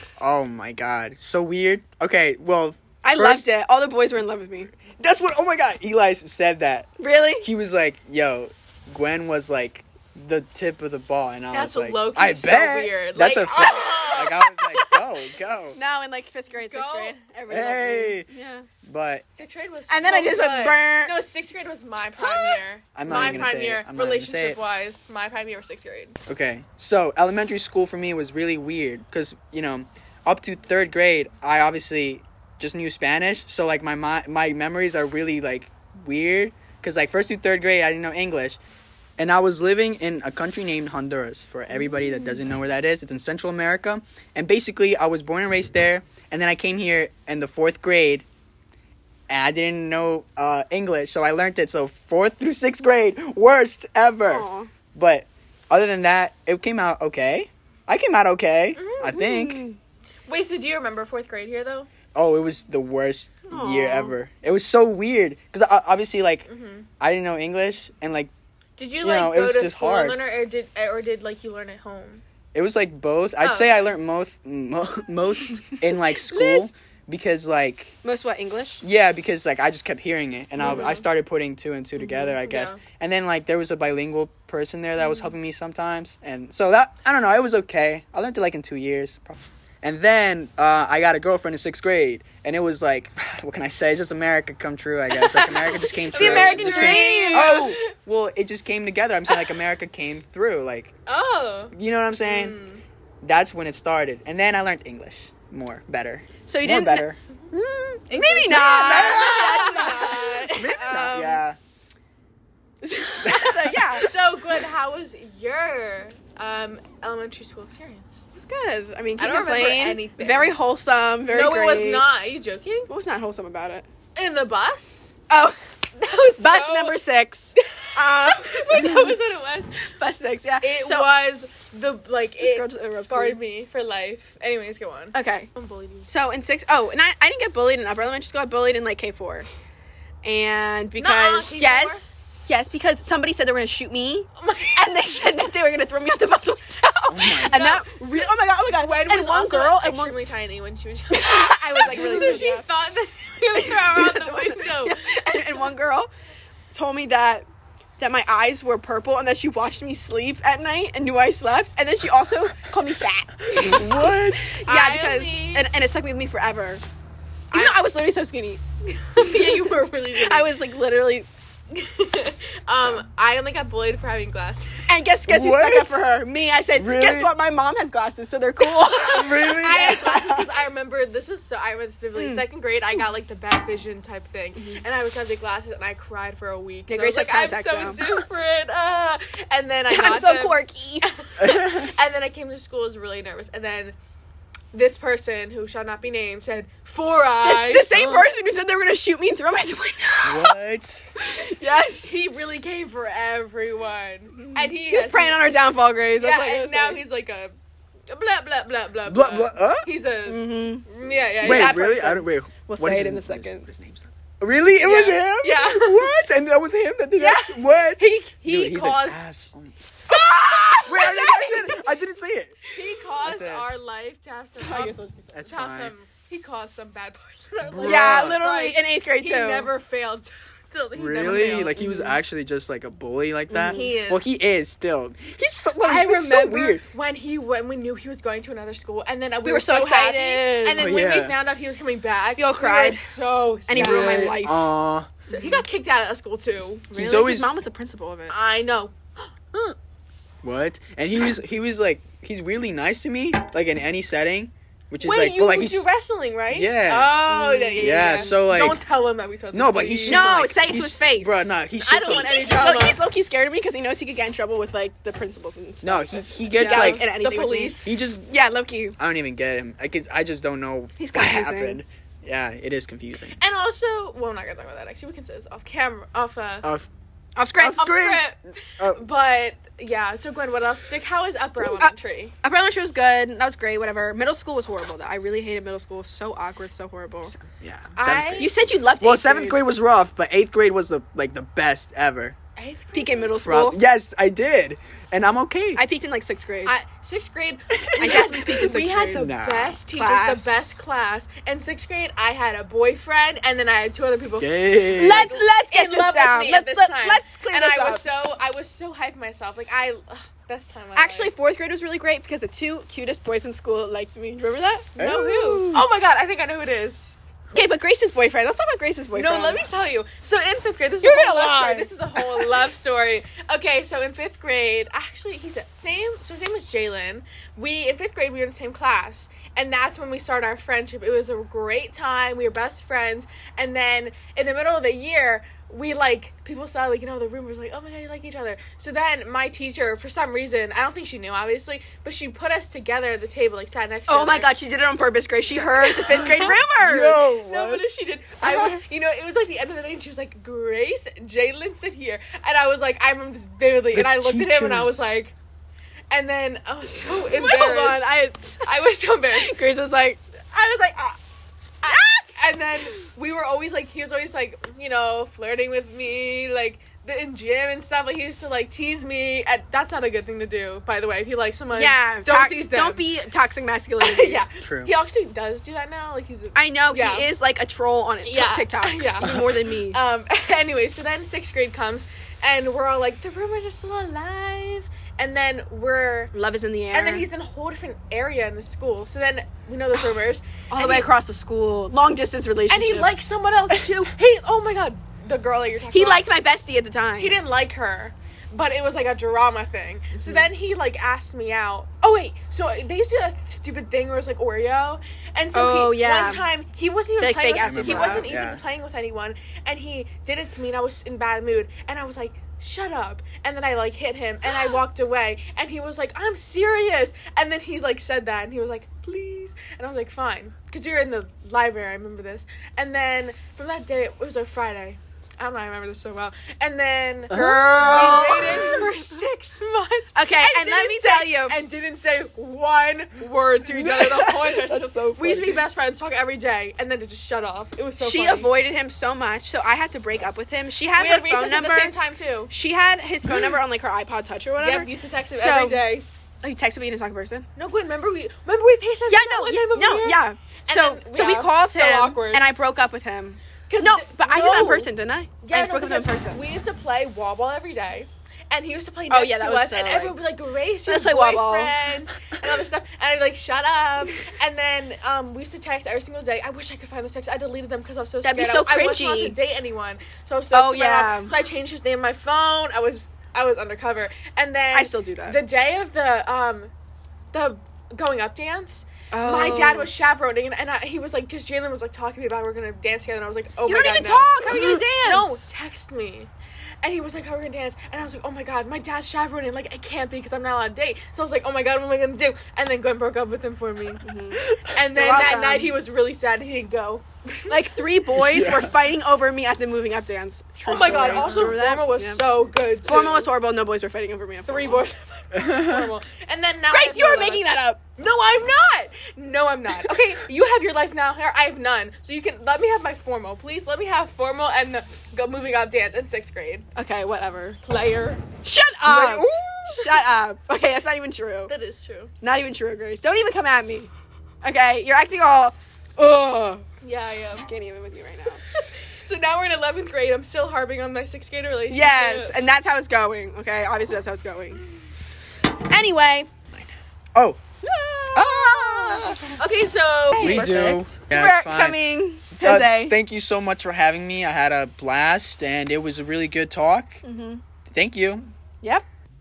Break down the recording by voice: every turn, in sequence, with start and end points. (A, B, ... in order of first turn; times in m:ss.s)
0:00.2-0:03.5 A
0:03.0-0:04.7 B
0:04.9-0:06.9 A
0:07.0-0:07.5 B
0:07.4-0:15.8 A
0:11.5-0:15.0 C
0:15.8-0:18.7 B
0:16.5-0:17.2 C
0:17.5-0:18.3 A
0:18.8-0:19.2 A
0:19.3-0:26.2 C
0:19.9-0:21.1 B
0:22.2-0:23.5 B
0:23.0-0:24.6 A
0:26.3-0:38.6 A
0:39.2-0:48.3 A
0:41.8-0:42.4 B
0:49.3-0:59.6 A
0:54.3-0:54.7 B
0:58.8-0:59.2 C
0:59.0-0:59.8 B
1:00.3-1:01.9 C
1:02.2-1:06.5 A
1:03.5-1:04.2 B
1:06.5-1:06.9 C
1:07.0-1:08.3 A
1:08.8-1:12.2 C
1:09.0-1:10.2 A
1:12.5-1:17.9 A
1:13.4-1:13.8 C
1:16.3-1:16.7 C
1:18.0-1:18.8 B
1:18.8-1:40.9 A
1:20.6-1:21.1 C
1:20.6-1:21.0 B
1:22.4-1:22.8 C
1:35.1-1:37.9 C
1:36.1-1:37.7 B
1:39.3-1:39.6 C
1:41.1-1:42.8 C
1:41.7-1:42.6 A
1:43.2-1:51.6 A
1:46.5-1:47.1 B
1:48.1-1:50.4 C
1:48.1-1:51.4 B
1:52.8-1:54.1 B
1:53.2-1:54.0 A
1:54.0-1:58.2 C
1:58.4-2:02.1 B
1:59.2-2:00.5 C
2:01.3-2:02.9 C
2:02.9-2:03.9 B
2:04.2-2:05.1 C
2:05.3-2:05.6 B
2:06.0-2:07.0 C
2:06.1-2:09.1 B
2:07.8-2:09.9 C
2:08.7-2:09.1 A
2:09.9-2:11.1 B
2:10.6-2:16.1 C
2:12.4-2:13.4 B
2:15.1-2:15.5 B
2:16.0-2:19.5 B
2:20.2-2:30.2 B
2:21.0-2:22.1 C
2:24.4-2:25.0 C
2:27.1-2:27.6 A
2:27.2-2:28.0 C
2:28.7-2:35.4 C
2:31.1-2:32.7 B
2:31.9-2:32.4 A
2:33.6-2:36.1 B
2:36.7-2:37.5 B
2:38.0-2:46.8 B
2:43.6-2:44.0 C
2:43.6-2:44.6 A
2:44.6-2:45.7 C
2:47.5-2:48.6 B
2:47.5-2:47.8 C
2:49.0-2:50.5 C
2:49.2-2:51.3 B
2:51.7-2:54.8 C
2:54.9-3:00.2 B
2:55.3-2:56.0 A
2:56.8-2:57.3 A
2:58.6-3:14.0 C
2:59.0-3:00.5 A
3:02.2-3:02.4 B
3:06.9-3:08.2 B
3:09.9-3:11.1 B
3:11.4-3:11.9 A
3:14.7-3:17.9 C
3:17.4-3:20.5 B
3:17.9-3:18.3 A
3:20.2-3:21.1 A
3:21.2-3:22.2 B
3:22.0-3:25.4 C
3:24.4-3:27.0 B
3:26.2-3:27.5 C
3:28.1-3:31.9 C
3:29.1-3:29.9 A
3:30.3-3:33.6 B
3:31.4-3:39.8 A
3:34.8-3:36.1 C
3:37.2-3:39.2 C
3:40.1-3:41.8 C
3:40.1-3:41.6 B
3:40.9-3:42.6 A
3:42.7-3:51.8 C
3:43.2-3:43.7 A
3:44.6-3:45.4 B
3:45.3-3:45.9 A
3:47.6-3:48.4 A
3:47.8-3:49.7 B
3:51.0-3:56.8 A
3:51.4-3:52.2 B
3:53.5-3:54.0 B
3:53.7-3:54.3 C
3:55.8-4:04.4 C
3:59.4-4:00.9 B
4:00.8-4:01.4 A
4:02.4-4:04.7 B
4:03.7-4:05.1 A
4:05.3-4:06.9 C
4:05.3-4:05.6 B
4:06.9-4:08.4 B
4:06.9-4:07.5 A
4:08.3-4:09.3 C
4:10.4-4:15.9 A
4:15.0-4:20.4 C
4:16.5-4:17.2 A
4:17.3-4:18.4 B
4:17.8-4:18.8 A
4:19.5-4:22.8 A
4:20.1-4:29.0 B
4:21.8-4:23.0 C
4:25.8-4:27.1 A
4:26.6-4:27.9 C
4:27.8-4:28.3 A
4:29.0-4:33.4 A
4:31.0-4:31.8 B
4:33.4-4:36.7 C
4:36.6-4:36.9 A
4:37.4-4:38.0 B
4:37.6-4:39.0 A
4:37.7-4:42.3 C
4:41.6-4:47.3 B
4:47.3-4:52.4 A
4:48.0-4:48.5 C
4:48.4-4:49.6 B
4:52.6-4:53.4 C
4:52.9-4:53.8 B
4:53.4-4:55.8 A
4:55.8-4:56.7 B
4:56.6-5:11.3 C
4:57.8-4:58.3 A
4:58.0-4:59.3 B
4:59.1-4:59.8 A
4:59.9-5:00.8 B
5:04.4-5:05.3 A
5:04.9-5:08.0 B
5:11.0-5:15.8 B
5:15.0-5:17.1 C
5:15.0-5:15.8 A
5:17.5-5:19.6 B
5:19.1-5:44.5 C
5:21.1-5:21.9 A
5:21.1-5:21.8 B
5:44.1-5:47.2 B
5:45.5-5:46.6 C
5:46.1-5:47.9 A
5:47.2-5:55.3 C
5:48.4-5:48.8 A
5:53.9-5:55.0 A
5:56.1-5:58.0 C
5:57.3-5:58.7 B
5:58.6-5:59.6 C
5:59.3-6:01.2 B
6:01.8-6:02.3 B
6:02.4-6:13.0 C
6:11.7-6:14.4 B
6:14.0-6:17.3 C
6:14.6-6:14.9 A
6:16.6-6:20.0 B
6:18.2-6:19.4 C
6:19.9-6:26.3 C
6:26.3-6:27.3 B
6:26.9-6:31.1 C
6:30.7-6:33.3 B
6:32.7-6:36.3 C
6:35.9-6:37.4 B
6:37.2-7:18.5 C
6:40.2-6:40.5 B
6:45.5-6:46.5 B
6:47.2-6:48.3 B
6:47.6-6:48.6 A
6:54.5-6:54.8 B
7:07.3-7:08.9 A
7:07.7-7:08.9 B
7:10.2-7:11.6 B
7:13.6-7:15.6 A
7:18.0-7:22.0 B
7:21.0-7:22.5 C
7:22.5-7:25.9 B
7:24.6-7:26.0 C
7:26.4-7:27.5 B
7:27.6-7:32.4 C
7:29.1-7:36.4 B
7:33.7-7:34.9 C
7:35.4-7:56.7 C
7:39.1-7:40.2 B
7:40.9-7:41.7 B
7:48.2-7:49.4 B
7:50.5-7:51.3 B
7:54.7-7:55.4 B
7:57.3-8:06.3 C
7:59.1-7:59.9 B
8:03.6-8:05.4 B
8:06.8-8:14.0 C
8:14.0-8:14.4 B
8:14.4-8:14.7 A
8:14.7-8:17.6 C
8:15.0-8:15.8 B
8:17.5-8:24.8 B
8:18.1-8:18.7 A
8:20.6-8:23.3 C
8:20.9-8:21.6 A
8:24.5-8:27.4 C
8:25.3-8:25.9 A
8:26.7-8:27.8 B
8:28.0-8:36.7 C
8:36.8-8:37.6 B
8:37.6-8:38.2 C
8:38.4-8:41.5 B
8:38.8-8:40.0 A
8:41.5-8:42.1 C
8:42.2-8:43.9 B
8:44.4-8:46.6 B
8:46.8-8:47.5 C
8:47.5-8:48.4 B
8:48.5-8:52.4 C
8:51.7-8:54.6 B
8:55.6-8:56.3 B
8:56.5-8:57.4 A
8:57.6-8:59.4 B
8:58.2-8:59.2 A
8:59.4-9:00.7 C
9:00.1-9:03.0 B
9:00.2-9:01.8 A
9:02.3-9:07.0 A
9:07.0-9:07.4 B
9:07.7-9:08.3 A